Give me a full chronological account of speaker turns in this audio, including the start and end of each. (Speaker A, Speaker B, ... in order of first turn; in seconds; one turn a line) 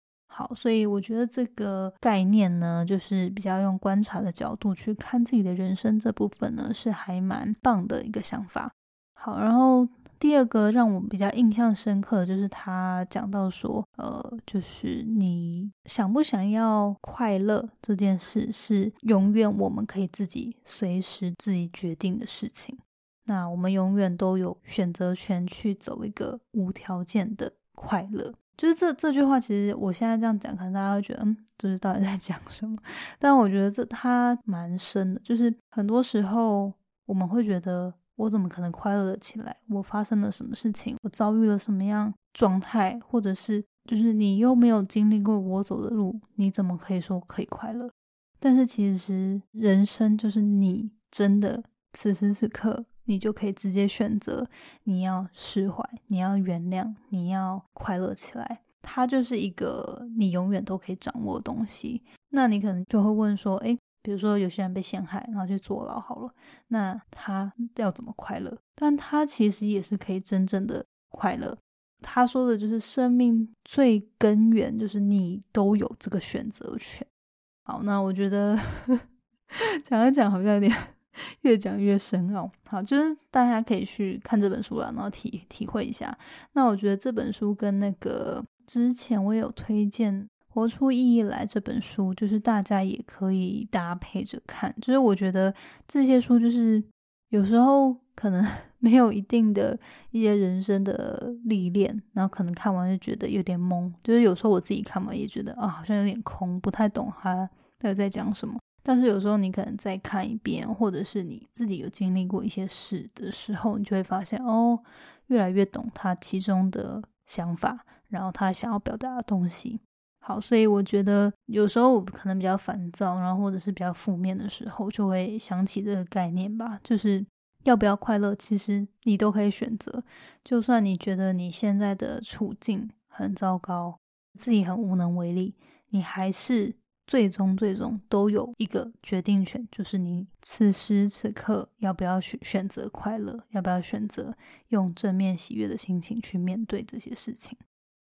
Speaker A: 0.3-77.1
Speaker A: 77.7-79.0
Speaker A: 79.5-147.6